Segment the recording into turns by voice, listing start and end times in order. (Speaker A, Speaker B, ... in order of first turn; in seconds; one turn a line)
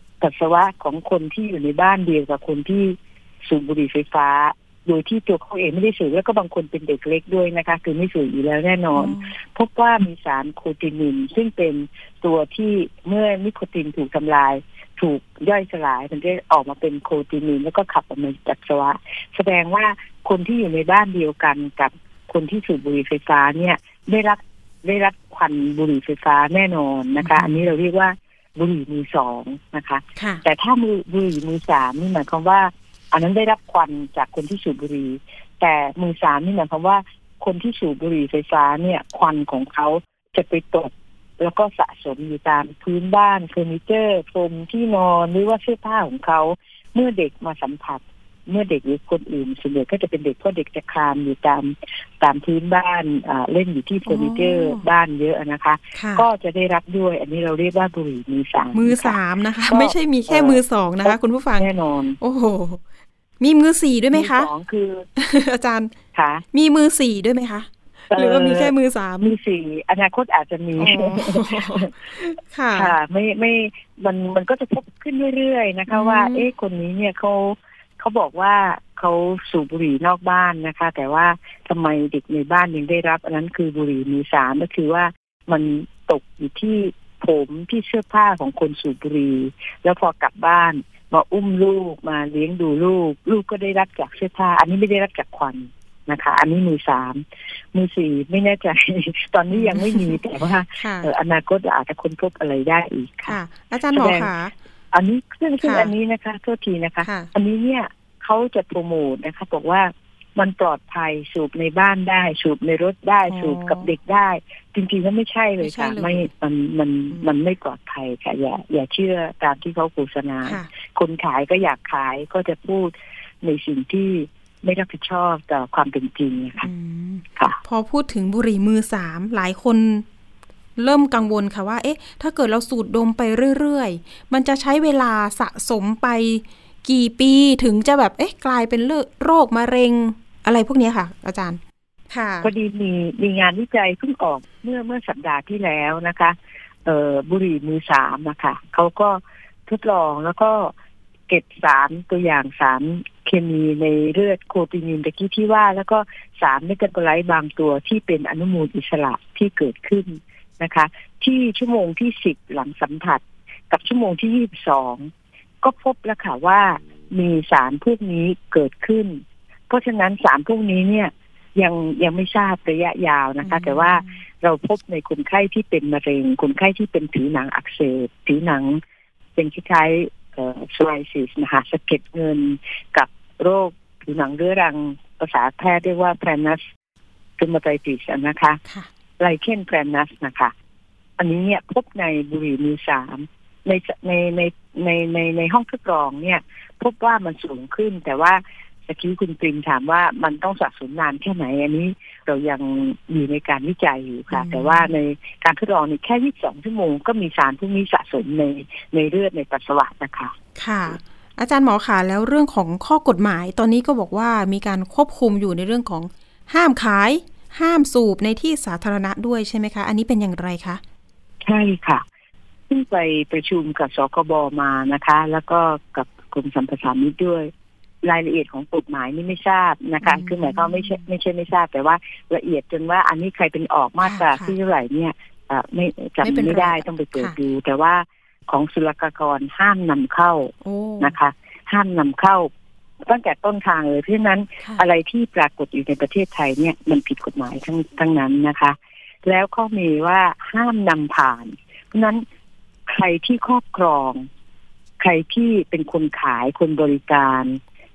Speaker A: 0.2-59.2
Speaker B: 8.9-9.3
Speaker B: 27.2-27.7
Speaker B: 30.1-30.4
Speaker B: 54.0-54.8
Speaker B: 55.9-56.3
Speaker B: 58.7-61.7
Speaker A: 59.7-62.2
Speaker B: 62.2-62.8
Speaker B: 63.4-64.5
Speaker A: 64.1-65.0
Speaker B: 65.2-65.9
Speaker A: 66.1-66.4
Speaker B: 66.5-69.3
Speaker A: 68.1-72.0
Speaker B: 70.8-72.9
Speaker A: 72.7-103.4
Speaker B: 75.9-76.5
Speaker B: 99.5-100.2
Speaker B: 100.8-101.1
Speaker B: 103.2-104.5
Speaker A: 103.9-104.3
Speaker A: 104.9-126.7
Speaker B: 105.6-105.9
Speaker B: 107.0-107.3
Speaker B: 113.3-113.9
Speaker B: 115.6-116.3
Speaker B: 126.6-130.1
Speaker B: 130.8-142.5
Speaker A: 142.4-150.7
Speaker A: 151.3-178.8
Speaker B: 173.4-174.1
Speaker A: 179.3-186.6
Speaker A: 187.4-188.6
Speaker A: 189.2-190.5
Speaker A: 191.2-210.3
Speaker B: 204.3-204.9
Speaker B: 210.6-220.8
Speaker A: 221.4-222.0
Speaker A: 222.7-227.5
Speaker A: 228.0-242.5
Speaker B: 230.0-231.0
Speaker B: 234.0-234.5
Speaker B: 236.2-237.4
Speaker B: 240.6-241.2
Speaker A: 243.0-252.2
Speaker A: 252.9-254.3
Speaker A: 255.0-257.6